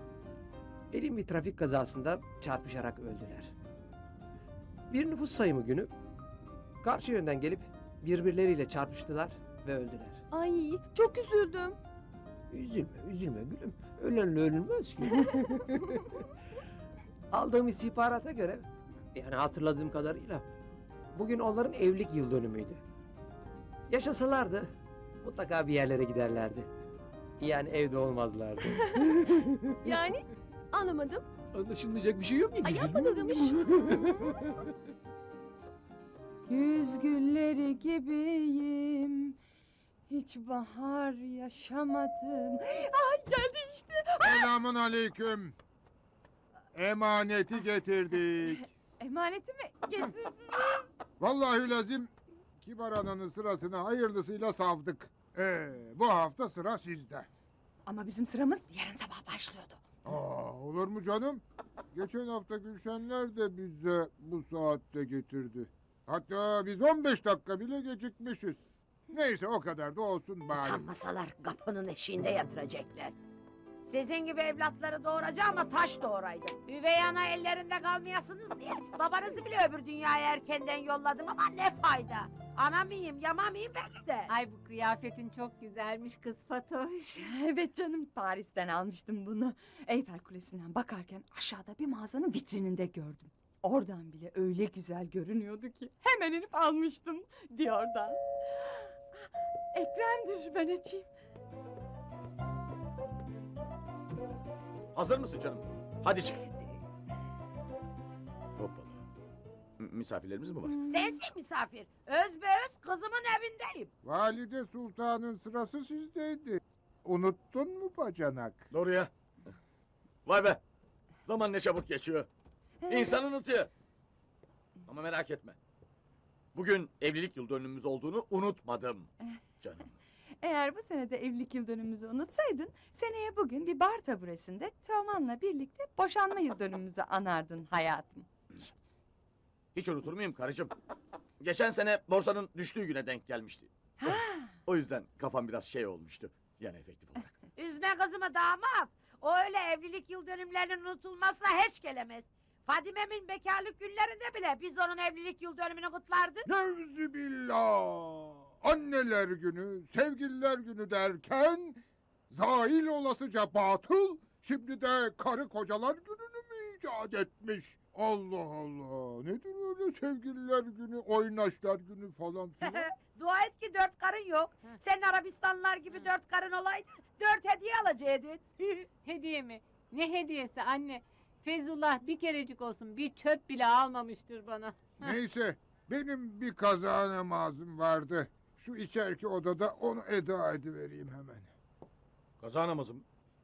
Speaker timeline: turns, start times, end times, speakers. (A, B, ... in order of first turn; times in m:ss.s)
0:00.9-0:03.5 A
0:04.9-0:05.9 A
0:06.8-0:10.2 A
0:10.3-0:11.8 B
0:12.5-0:16.1 A
0:17.3-0:20.4 A
0:21.1-0:22.8 A
0:23.9-0:24.7 A
0:25.2-0:26.7 A
0:27.4-0:30.0 A
0:29.0-0:29.2 B
0:29.8-0:31.3 B
0:31.5-0:34.5 A
0:32.6-0:33.6 B
0:36.5-0:39.4 C
0:40.1-0:44.5 C
0:44.2-0:45.5 D
0:46.7-0:48.6 D
0:49.0-0:50.9 C
0:51.2-0:57.3 D
0:57.8-0:59.8 C
1:00.0-1:10.9 D
1:10.6-1:13.1 E
1:13.8-1:24.3 E
1:24.3-1:27.3 F
1:27.2-1:41.1 C
1:44.9-1:46.4 G
1:48.6-1:49.0 G
1:49.8-1:50.8 G
1:50.6-1:51.2 C
1:50.8-1:53.9 E
1:54.0-1:58.6 D
1:58.7-1:59.1 G
2:00.2-2:00.6 G
2:01.2-2:02.3 G
2:02.8-2:03.2 C
2:02.9-2:03.7 G
2:04.8-2:05.6 G
2:06.5-2:09.1 G
2:09.6-2:09.9 G
2:10.4-2:18.3 C
2:19.7-2:20.7 G
2:21.4-2:27.3 G
2:24.0-2:24.5 C
2:27.6-2:36.5 E
2:36.5-2:52.9 D
2:52.6-2:58.8 E
2:59.0-3:05.1 F
3:05.0-3:11.5 D
3:12.4-3:13.0 G